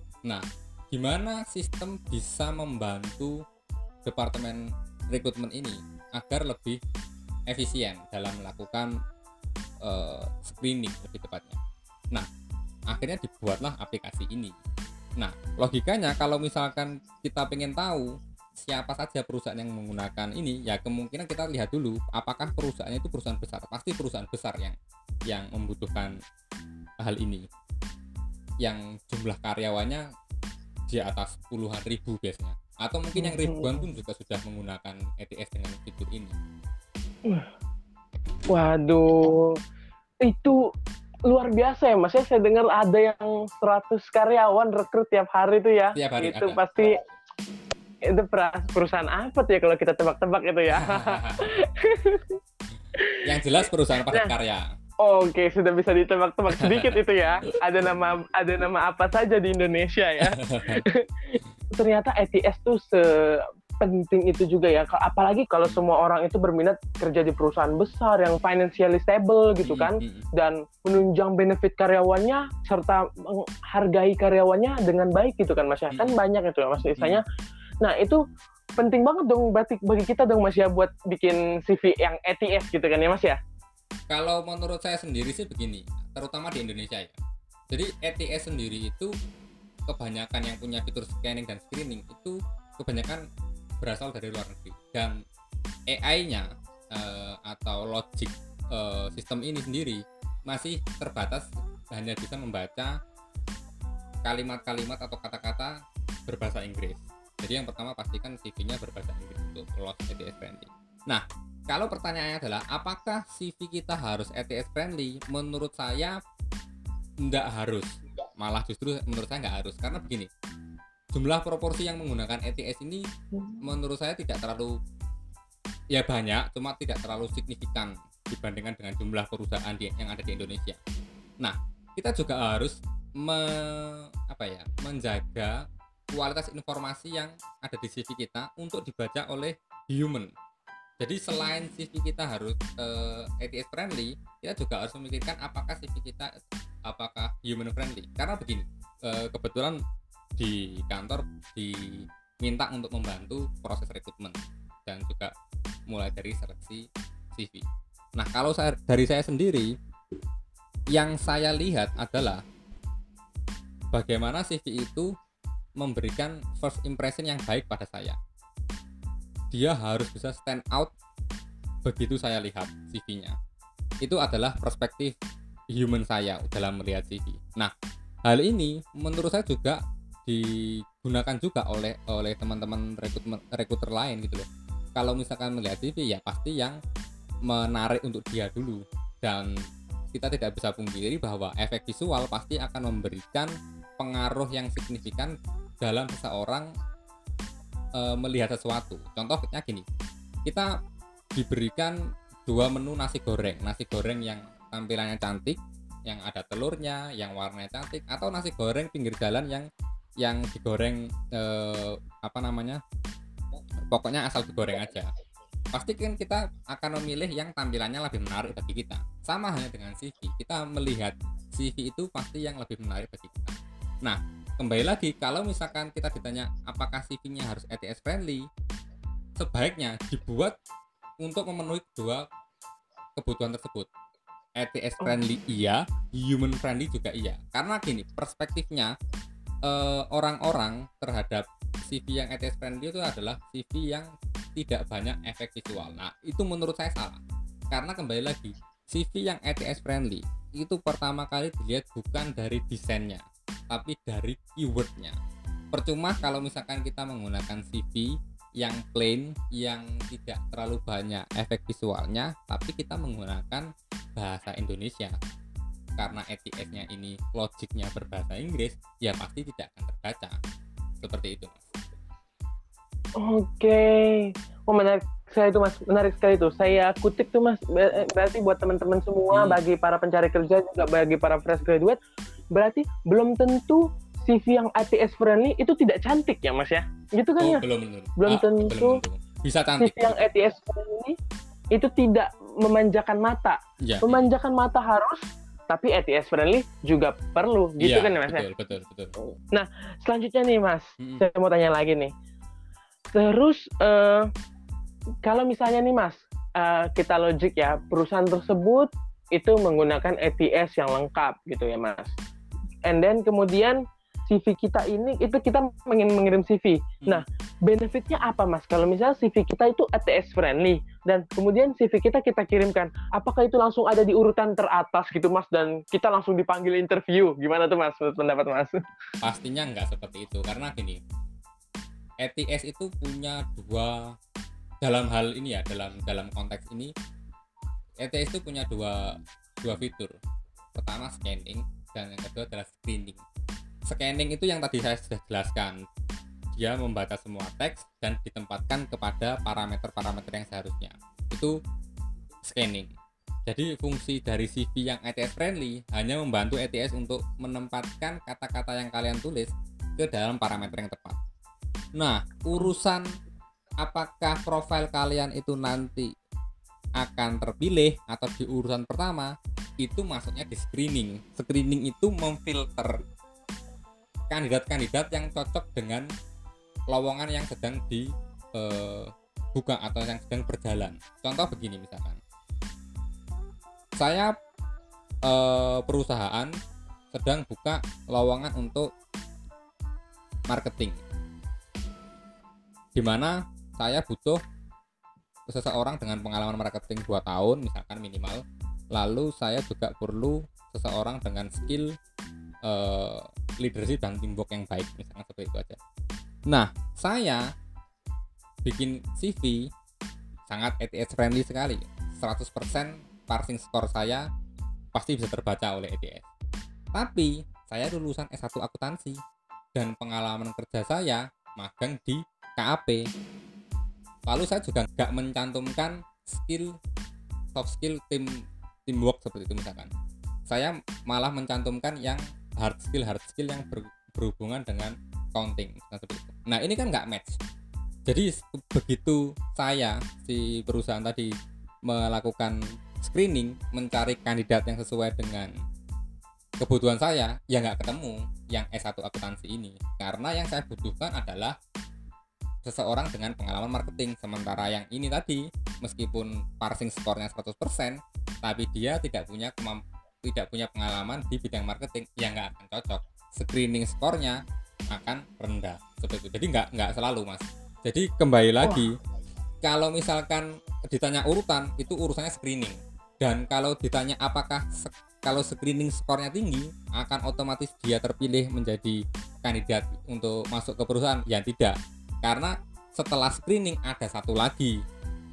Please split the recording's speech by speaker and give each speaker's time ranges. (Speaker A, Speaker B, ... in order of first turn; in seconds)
Speaker A: 0.2-3.4, 4.0-6.8, 7.5-8.9, 9.8-11.6, 12.9-14.5, 15.2-24.8, 25.3-26.1, 27.0-27.5, 28.6-30.0, 30.9-36.3, 45.9-46.6, 50.7-51.4, 53.2-54.7, 56.5-57.5, 60.3-60.8, 69.6-70.2, 76.9-77.2, 84.1-87.2, 87.7-89.1, 89.9-93.2, 93.8-95.2, 95.9-103.0, 104.2-116.2, 117.2-120.3, 121.1-123.0, 123.6-124.8, 125.9-130.8, 131.4-140.3, 141.0-146.3, 146.9-149.8, 150.4-155.3, 155.9-159.7, 160.9-162.4, 163.9-165.1, 165.8-168.2, 169.5-170.9, 171.8-173.3, 174.0-175.1, 175.7-177.7, 178.2-186.8, 187.5-189.5, 190.1-196.7, 197.9-199.8, 200.4-200.7, 201.3-209.7, 210.2-212.8, 213.9-215.1, 215.7-228.4, 229.4-230.6, 231.2-232.2, 233.2-233.9, 234.6-238.9, 239.6-255.2, 255.7-265.1, 266.0-270.4, 271.0-271.6, 279.3-279.6, 287.4-290.2, 293.8-294.3, 297.8-299.1, 301.0-301.2, 329.2-331.0, 332.2-334.1, 334.8-336.9, 338.0-340.2, 340.7-343.2, 343.9-345.8, 346.5-351.6, 352.4-352.9, 353.4-361.2, 362.0-363.1, 363.8-366.1, 367.0-373.0, 374.3-376.1, 376.9-382.2, 384.0-384.3, 385.3-386.5, 387.1-388.9, 390.5-391.0, 392.9-394.4, 395.5-401.9, 402.6-405.8, 406.5-407.4, 408.6-409.7, 410.5-414.2, 414.9-416.3, 416.9-419.2, 419.7-423.0, 424.3-426.7, 427.5-429.9, 430.5-437.4, 438.1-441.3, 441.9-445.5, 446.6-451.6, 452.6-469.0, 469.6-484.8
Speaker B: 33.1-33.8, 38.5-39.6, 40.2-40.6, 41.3-47.0, 48.1-52.4, 52.9-53.4, 54.0-54.3, 55.0-77.2, 77.8-78.2, 78.8-83.4, 273.2-282.0, 282.5-287.6, 288.2-289.0, 289.8-291.1, 291.7-298.4, 299.5-302.1, 303.1-304.3, 305.2-312.1, 312.9-328.8